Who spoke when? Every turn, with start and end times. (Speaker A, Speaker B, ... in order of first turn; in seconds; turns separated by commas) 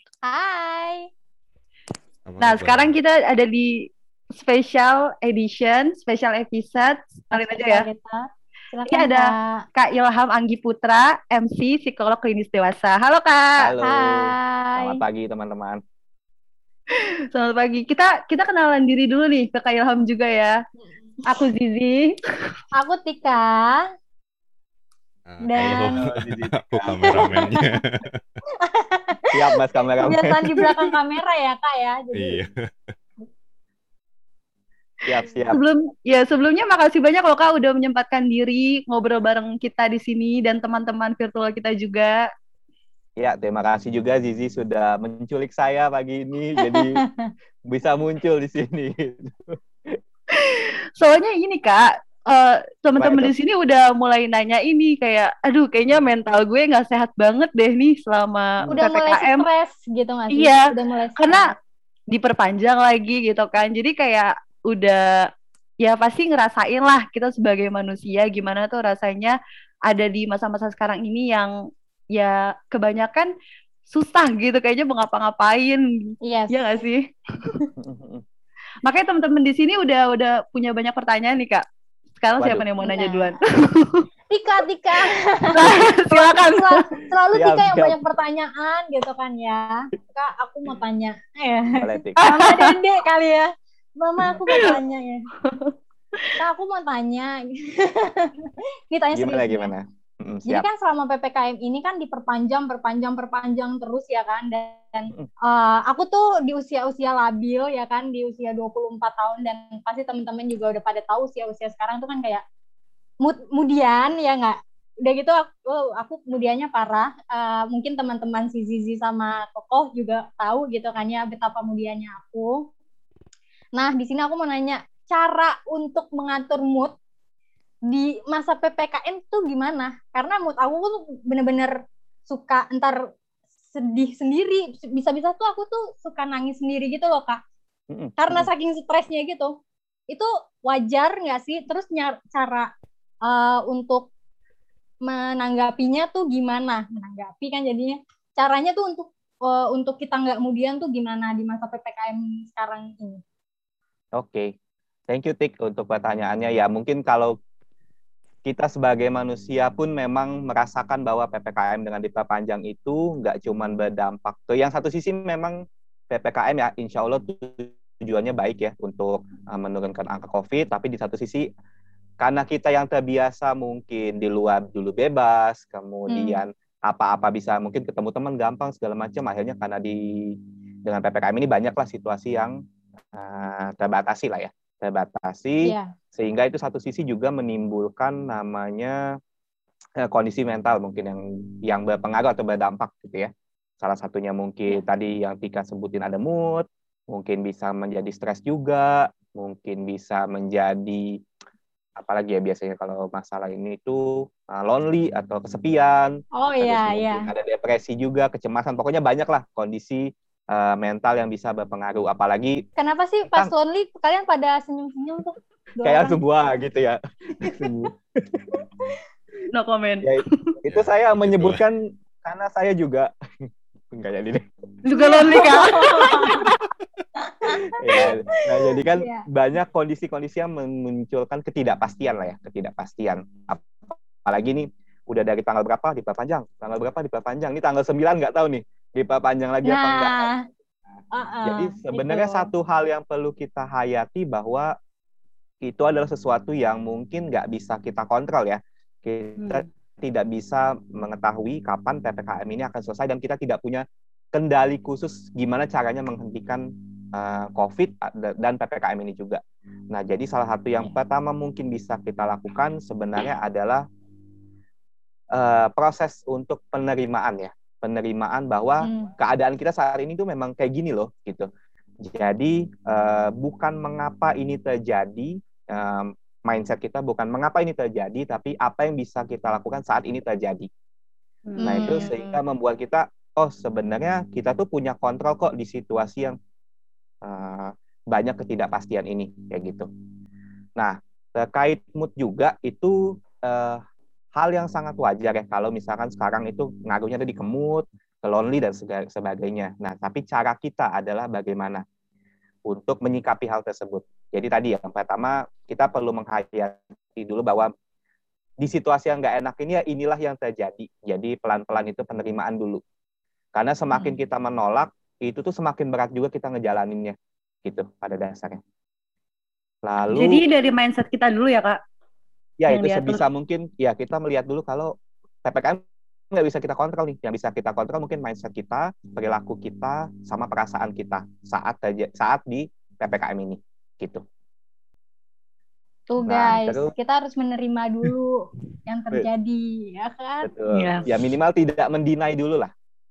Speaker A: 0.2-1.1, Speaker B: 2.2-2.9, Speaker C: 2.4-7.9, Speaker A: 7.3-9.6, Speaker C: 8.9-13.6, Speaker D: 13.6-15.8, Speaker A: 13.8-15.0, Speaker C: 17.3-20.6, Speaker A: 21.2-22.2, Speaker A: 22.7-23.8, Speaker B: 25.3-28.2, Speaker A: 25.4-26.0, Speaker D: 25.6-27.3, Speaker A: 26.9-27.8, Speaker A: 28.6-32.4, Speaker D: 29.3-30.8, Speaker B: 32.1-32.9, Speaker D: 35.0-35.6, Speaker C: 35.5-42.2, Speaker D: 43.2-47.0, Speaker A: 46.6-47.3, Speaker D: 47.7-50.0, Speaker C: 50.4-59.5, Speaker D: 53.0-53.3, Speaker A: 58.7-61.5, Speaker C: 60.3-60.6, Speaker C: 61.2-61.4, Speaker C: 62.1-65.0, Speaker C: 65.8-69.3, Speaker C: 69.9-71.5, Speaker C: 72.1-73.3, Speaker C: 73.9-77.1, Speaker A: 76.2-76.8, Speaker D: 77.8-78.2, Speaker C: 78.8-81.6, Speaker C: 82.2-84.0, Speaker D: 82.4-82.6, Speaker A: 82.8-83.4, Speaker A: 84.3-95.2, Speaker C: 85.5-86.8, Speaker D: 87.3-88.0, Speaker D: 91.8-92.2, Speaker C: 92.2-92.7, Speaker C: 95.4-96.3, Speaker A: 96.4-98.3, Speaker A: 98.9-99.7, Speaker D: 99.1-100.7, Speaker A: 100.5-112.4, Speaker A: 113.2-122.7, Speaker A: 123.8-126.9, Speaker A: 127.9-131.8, Speaker A: 132.3-133.0, Speaker A: 133.7-137.4, Speaker D: 137.9-138.5, Speaker A: 138.2-139.6, Speaker A: 140.1-142.7, Speaker A: 143.2-144.1, Speaker A: 145.1-153.2, Speaker D: 154.2-154.5, Speaker D: 155.1-157.3, Speaker D: 158.4-165.6, Speaker D: 166.1-171.4, Speaker D: 172.2-182.6, Speaker A: 176.1-176.4, Speaker D: 183.1-189.0, Speaker A: 185.6-185.9, Speaker D: 190.0-201.2, Speaker D: 202.0-212.6, Speaker A: 206.3-207.3, Speaker A: 212.8-216.2, Speaker D: 215.8-218.6, Speaker A: 217.4-217.7, Speaker C: 219.5-220.5, Speaker D: 220.0-223.1, Speaker B: 220.7-221.6, Speaker D: 223.9-224.4, Speaker C: 224.8-226.6, Speaker A: 224.9-226.5, Speaker A: 227.2-229.2, Speaker D: 227.8-240.1, Speaker A: 239.7-240.4, Speaker A: 241.1-242.5, Speaker D: 241.4-244.7, Speaker D: 245.6-263.8, Speaker C: 249.4-249.6, Speaker D: 265.3-271.5, Speaker A: 268.8-269.1, Speaker D: 272.0-280.7, Speaker C: 281.5-282.3, Speaker A: 281.6-282.1, Speaker D: 281.6-286.4, Speaker D: 287.2-289.9, Speaker D: 290.8-293.8, Speaker D: 294.3-301.8, Speaker D: 302.7-307.7, Speaker D: 308.6-312.8, Speaker D: 313.6-318.6, Speaker D: 319.8-320.4, Speaker C: 320.1-321.8, Speaker D: 322.6-324.9, Speaker C: 322.7-323.2, Speaker D: 325.4-334.2, Speaker A: 336.1-340.5, Speaker D: 336.3-336.9, Speaker D: 340.4-342.7, Speaker C: 340.7-341.0